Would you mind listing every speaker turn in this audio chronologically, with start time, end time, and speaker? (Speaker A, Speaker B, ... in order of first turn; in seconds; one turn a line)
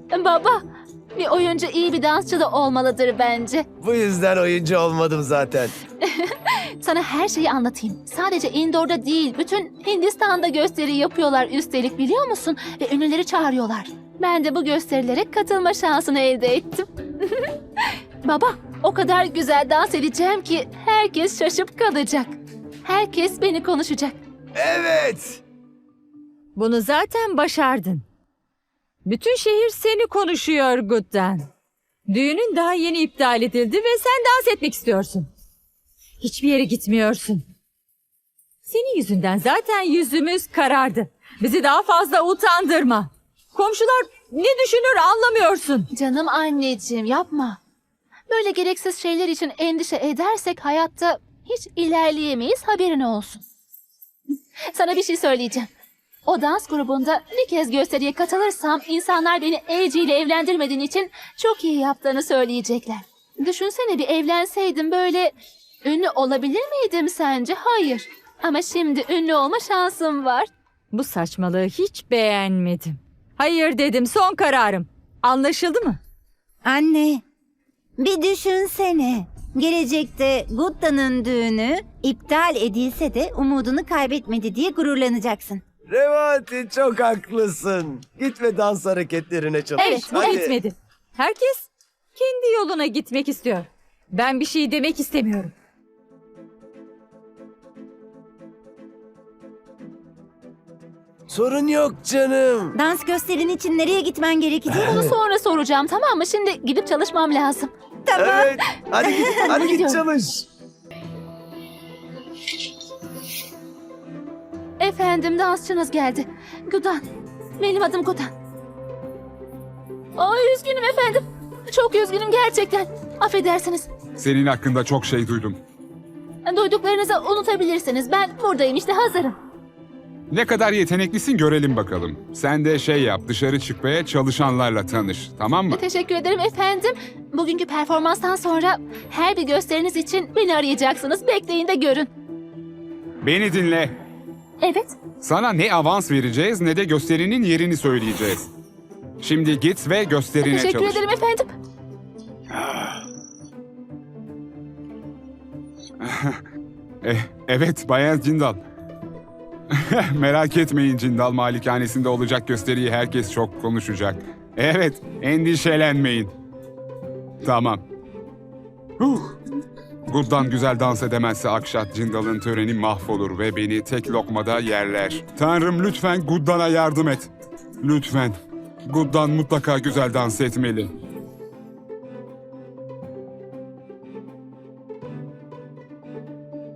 Speaker A: 0.1-0.6
Speaker A: 1.1-3.6
Speaker B: 3.8-5.7
Speaker A: 6.0-17.5
Speaker A: 18.2-24.2
Speaker B: 24.6-25.4
Speaker C: 26.6-28.0
Speaker C: 29.1-31.5
Speaker C: 32.1-35.3
Speaker C: 36.2-37.4
Speaker C: 38.7-45.9
Speaker A: 45.9-47.6
Speaker A: 48.3-53.4
Speaker A: 54.7-55.7
Speaker A: 56.2-65.3
Speaker A: 65.8-70.5
Speaker C: 70.9-76.0
Speaker D: 76.6-77.2
Speaker D: 78.0-85.6
Speaker B: 85.9-90.6
Speaker A: 89.8-90.3
Speaker C: 89.8-95.5
Speaker B: 101.3-102.8
Speaker D: 102.7-104.8
Speaker B: 104.7-105.1
Speaker A: 104.8-107.7
Speaker D: 108.1-108.5
Speaker B: 108.1-110.5
Speaker A: 109.0-110.0
Speaker A: 114.8-117.0
Speaker A: 117.6-118.3
Speaker A: 120.2-123.9
Speaker E: 124.2-125.6
Speaker A: 126.4-129.3
Speaker E: 130.3-135.8
Speaker A: 135.7-142.1
Speaker E: 143.2-143.9
Speaker A: 144.6-145.0
Speaker E: 145.2-148.5
Speaker E: 149.2-151.0
Speaker A: 150.4-151.5
Speaker E: 152.6-152.9
Speaker E: 156.0-156.4
Speaker E: 157.0-158.6
Speaker E: 159.7-166.3
Speaker E: 167.4-167.8
Speaker E: 169.0-169.4
Speaker E: 170.1-177.3
Speaker E: 177.8-180.9